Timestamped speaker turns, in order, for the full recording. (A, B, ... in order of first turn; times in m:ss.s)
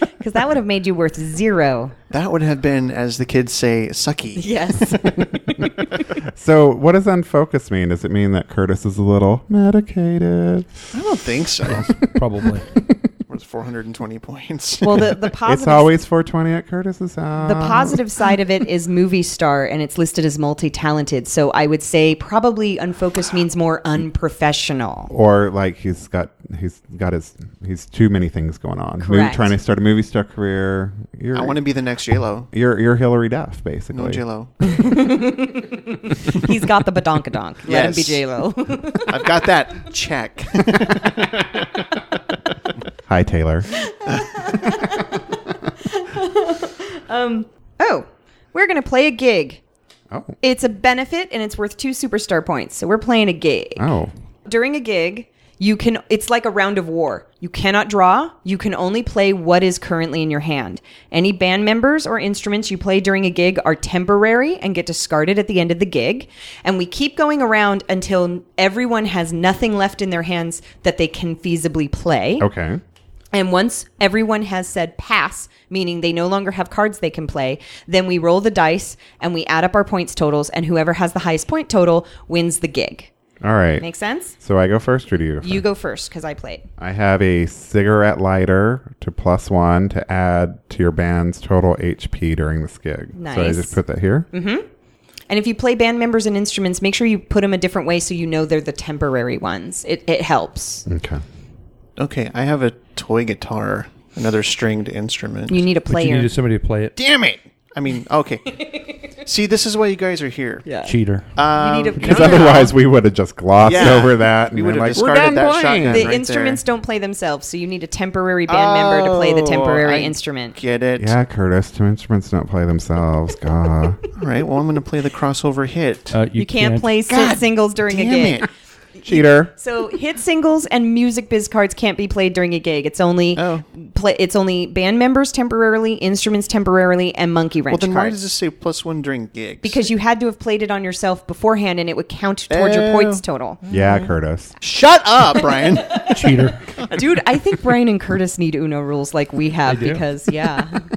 0:00.2-0:02.0 A
0:02.1-0:05.0 B
0:04.4-0:05.7 A
0:06.3-0:10.9 C
0:10.9-0:11.9 B
0:11.7-0:12.7 D
0:13.3-0:15.2 B
0:14.8-0:16.0 A
0:15.5-0:18.0 C
0:17.4-0:25.1 A
0:25.1-0:31.6 C
0:29.0-0:29.5 A
0:31.3-0:32.5 B
0:32.5-0:34.2 C
0:33.9-0:34.5 B
0:34.7-0:39.5 A
0:37.6-0:38.3 B
0:39.0-0:41.7 B
0:43.1-0:43.7 C
0:44.0-0:49.6 A
0:50.1-0:50.4 C
0:50.4-0:53.9 A
0:53.8-0:54.1 C
0:54.5-1:12.5 A
1:12.4-1:12.8 C
1:13.3-1:23.1 A
1:23.4-1:23.8 C
1:23.8-1:24.4 A
1:24.4-1:25.6 C
1:25.4-1:26.7 A
1:26.8-1:34.3 C
1:33.2-1:33.8 A
1:34.3-1:34.7 A
1:35.3-1:40.8 A
1:40.9-1:41.2 C
1:42.0-1:45.7 B
1:45.5-1:46.3 A
1:45.9-1:47.0 D
1:47.0-1:50.7 B
1:50.6-1:51.0 A
1:50.8-1:51.3 D
1:51.4-1:52.7 B
1:51.5-1:52.7 A
1:52.0-1:56.1 C
1:53.6-1:56.6 B
1:55.9-2:00.6 A
1:58.5-2:01.2 B
2:01.0-2:04.0 C
2:04.2-2:06.2 B
2:06.1-2:07.0 D
2:06.4-2:08.4 A
2:07.1-2:08.5 B
2:09.0-2:18.2 A
2:09.0-2:09.5 C
2:13.4-2:13.6 B
2:17.7-2:19.9 B
2:19.6-2:23.6 A
2:22.5-2:23.8 B
2:23.7-2:24.6 C
2:24.6-2:26.9 B
2:25.6-2:26.2 A
2:26.1-2:26.6 D
2:26.9-2:30.8 A
2:29.7-2:30.0 D